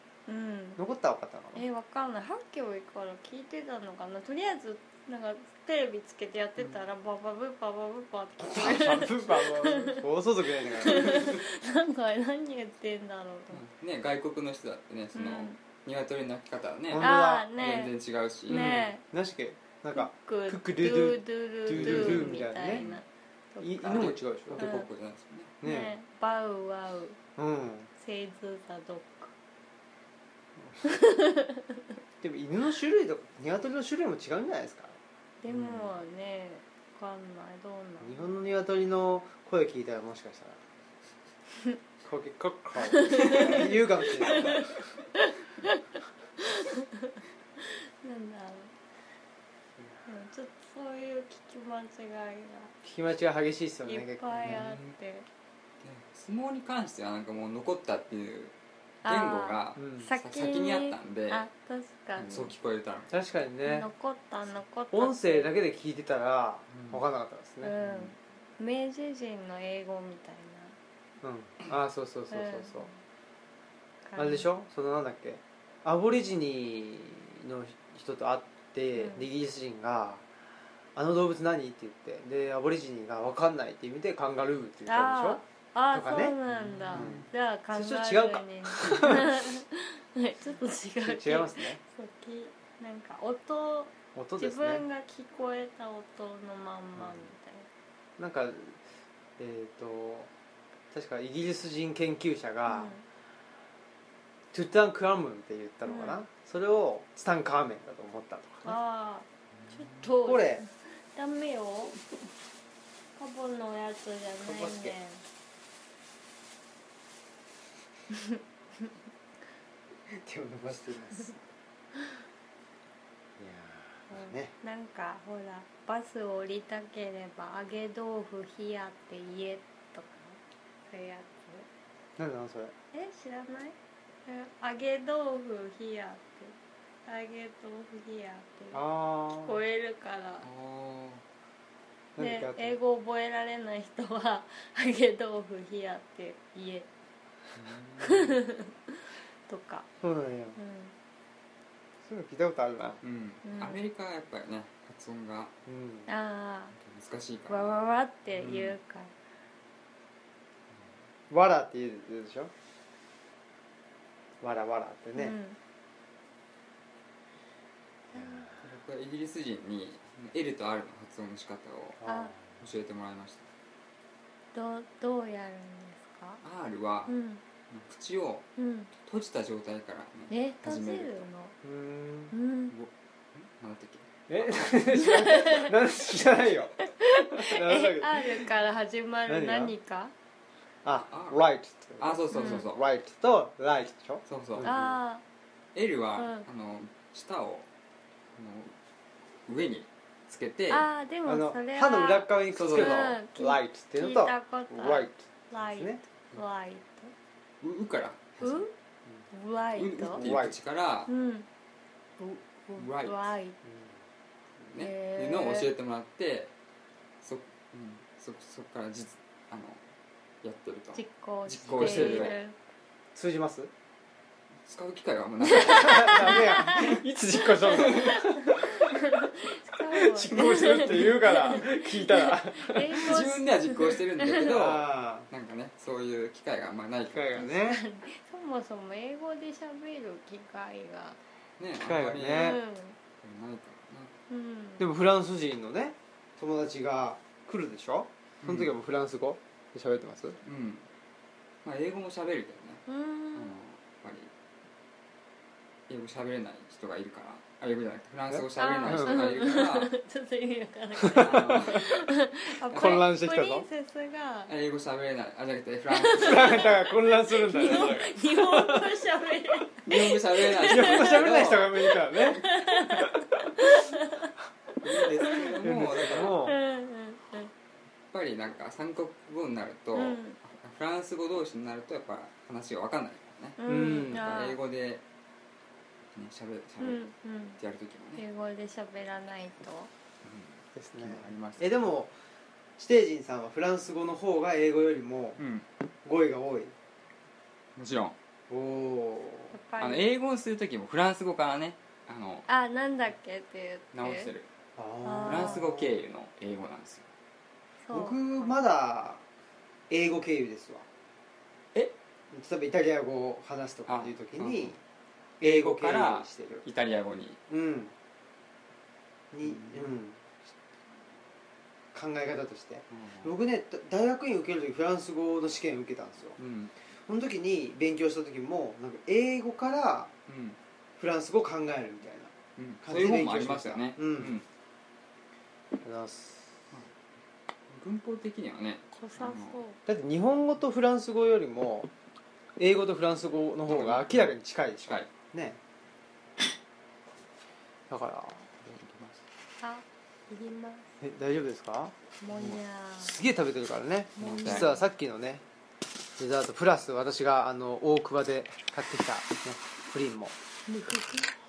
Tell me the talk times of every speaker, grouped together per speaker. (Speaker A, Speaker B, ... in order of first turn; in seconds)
Speaker A: 0.3-0.8, 1.5-10.0, 10.7-13.6, 15.1-15.6, 17.0-17.9, 18.5-19.0, 19.9-24.9, 25.6-27.2, 28.0-29.3, 30.8-31.8, 35.4-38.3, 42.9-45.8, 46.4-48.7, 50.0-52.7, 53.9-55.3, 59.0-62.5, 63.6-65.5, 67.6-70.8, 72.3-73.0, 74.0-74.5, 78.9-79.3, 84.9-97.7, 102.7-103.0, 105.8-106.2, 108.6-112.0, 113.2-115.2, 124.1-131.7, 132.9-136.5, 137.1-140.5, 142.2-146.9, 148.0-149.9, 150.6-150.9, 153.4-153.8, 156.1-156.7, 157.5-159.1, 165.1-165.6, 168.1-168.5, 172.0-172.3, 174.5-176.4, 177.1-177.4, 178.6-178.9, 180.3-181.5, 182.3-182.7, 184.9-185.7, 186.8-190.1, 192.3-192.6, 194.6-195.2, 196.2-196.4, 200.7-207.1, 208.4-208.7, 209.3-210.2, 211.1-211.5, 212.2-213.6, 214.7-215.7, 220.9-222.6, 225.4-234.4, 237.4-241.2, 242.3-242.9, 244.3-244.9, 252.9-253.6, 258.6-264.5, 265.9-274.3, 274.9-275.6, 276.4-277.5, 279.9-280.4, 283.6-284.6, 286.8-287.6, 288.1-289.9, 299.5-300.1, 302.5-304.3, 305.0-305.6, 307.8-308.2, 338.9-339.8, 349.6-350.9, 352.2-353.2, 354.2-354.9, 360.7-361.3
Speaker B: 0.8-1.6, 8.4-11.4, 16.9-17.5, 18.5-22.8, 23.6-24.8, 25.6-25.9, 27.4-27.9, 32.2-35.0, 38.0-40.6, 42.0-44.7, 52.8-54.6, 59.8-60.0, 63.1-63.9, 64.9-67.8, 71.2-72.9, 74.2-80.2, 80.9-86.4, 86.9-89.4, 91.0-91.8, 94.1-94.8, 97.0-97.2, 98.2-98.8, 99.4-100.3, 100.9-102.9, 104.5-108.8, 110.2-110.6, 114.4-115.0, 120.1-121.4, 123.4-124.5, 132.2-132.7, 138.7-139.6, 142.2-142.8, 150.0-150.6, 152.0-153.0, 155.7-156.1, 161.3-162.5, 164.4-165.4, 168.1-168.6, 172.0-172.6, 181.6-182.3, 184.3-186.7, 187.3-188.5, 189.3-189.7, 190.8-195.0, 201.2-206.0, 210.1-210.6, 213.6-214.0, 221.7-222.4, 223.1-223.7, 225.6-228.6, 230.0-233.2, 234.4-235.3, 237.1-237.8, 241.8-242.6, 244.8-250.4, 258.3-259.2, 261.0-261.9, 262.7-263.7, 266.1-269.0, 270.6-273.5, 275.6-276.6, 283.6-284.3, 290.7-292.1, 292.8-295.4, 296.0-296.7, 298.5-299.5, 304.8-306.0, 307.9-309.2, 309.9-310.9, 312.3-314.8, 315.4-316.6, 317.5-317.9, 319.3-320.2, 321.9-326.4, 327.1-330.1, 331.0-334.4, 335.8-336.5, 339.9-341.9, 342.6-345.6, 347.9-348.5, 351.0-351.9, 353.0-355.4, 356.2-360.4
Speaker C: 13.5-18.9, 21.7-23.0, 23.9-25.5, 35.5-35.9, 54.4-55.0, 55.8-61.5, 62.2-63.1, 66.7-67.0, 67.8-68.1, 86.5-87.3, 109.6-110.0, 140.4-141.2, 147.6-148.4, 153.0-155.5, 156.8-157.7, 168.6-173.5, 176.4-177.1, 177.7-178.5, 179.0-181.2, 182.7-184.8, 191.0-191.4, 192.0-192.8, 194.3-194.7, 195.7-197.7, 198.3-198.7, 199.4-200.9, 202.5-203.2, 207.6-208.7, 209.7-211.1, 212.8-213.2, 214.7-216.5, 217.2-219.8, 220.4-222.4, 224.7-227.0, 227.8-228.1, 230.2-231.5, 233.0-237.5, 241.6-242.6, 243.2-244.1, 248.4-248.7, 250.4-250.9, 251.6-254.3, 255.9-259.9, 261.1-261.9, 262.7-263.1, 264.5-266.7, 269.9-272.3, 274.8-276.5, 278.1-285.0, 286.1-287.1, 287.6-288.2, 290.2-291.8, 295.4-295.6, 297.8-298.1, 299.8-302.5, 303.9-304.5, 305.2-307.1, 313.9-314.8, 315.4-317.4, 319.4-319.9, 322.9-323.3, 326.4-326.7, 330.3-330.6, 332.6-334.4, 337.7-339.6, 343.7-344.3, 348.6-349.2, 352.3-352.6, 354.2-354.7